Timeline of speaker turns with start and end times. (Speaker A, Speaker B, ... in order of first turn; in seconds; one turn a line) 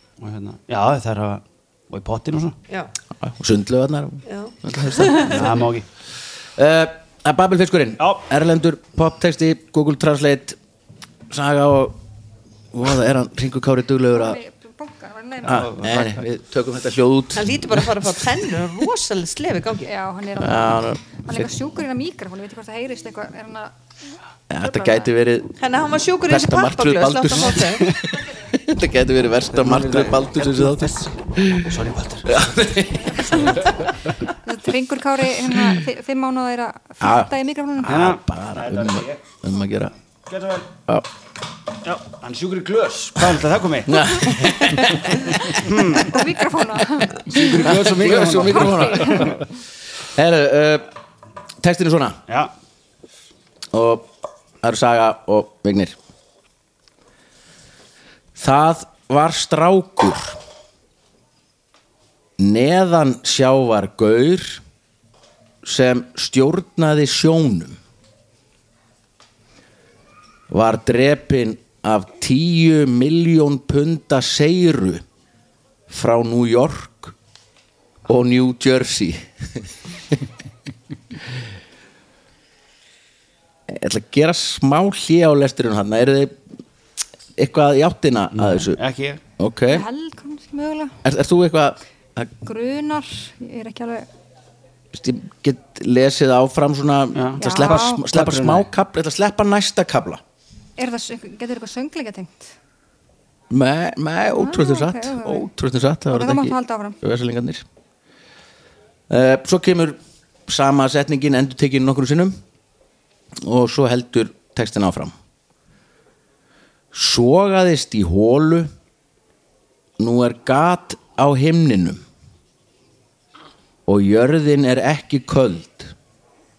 Speaker A: 0.2-2.6
Speaker B: 3.2-5.5
Speaker C: 4.3-5.4
Speaker A: 5.2-5.9
Speaker B: 6.6-10.6
Speaker B: 11.3-12.0
Speaker B: 12.7-14.4
Speaker D: 14.1-15.7
Speaker B: 15.4-18.1
Speaker A: 15.5-16.2
Speaker C: 17.4-19.9
Speaker D: 19.9-23.7
Speaker B: 20.4-21.5
Speaker B: 24.5-25.6
Speaker D: 24.6-25.1
Speaker C: 25.6-27.9
Speaker B: 26.3-33.7
Speaker A: 29.5-32.4
Speaker D: 34.4-38.1
Speaker B: 35.5-35.8
Speaker B: 37.0-39.9
Speaker A: 37.9-39.2
Speaker A: 40.3-40.8
Speaker A: 41.8-46.2
Speaker B: 43.9-45.8
Speaker D: 46.0-49.4
Speaker A: 47.3-49.4
Speaker B: 47.6-49.4
Speaker B: 50.1-50.9
Speaker B: 51.6-52.2
Speaker B: 53.7-54.1
Speaker B: 54.6-56.0
Speaker B: 58.4-60.4
Speaker B: 62.4-64.6
Speaker B: 65.6-67.8
Speaker B: 70.5-75.0
Speaker B: 75.9-77.2
Speaker B: 78.1-79.7
Speaker B: 83.7-86.4
Speaker B: 87.4-88.8
Speaker A: 88.3-89.2
Speaker B: 89.4-89.9
Speaker D: 89.7-91.0
Speaker B: 91.0-92.3
Speaker D: 92.4-94.1
Speaker B: 94.9-100.2
Speaker A: 97.1-98.7
Speaker D: 97.4-98.0
Speaker D: 100.8-102.5
Speaker B: 103.5-107.7
Speaker D: 104.3-105.5
Speaker D: 106.1-107.0
Speaker B: 109.1-112.3
Speaker B: 113.4-115.1
Speaker B: 116.9-118.7
Speaker B: 120.0-122.0
Speaker B: 123.9-125.9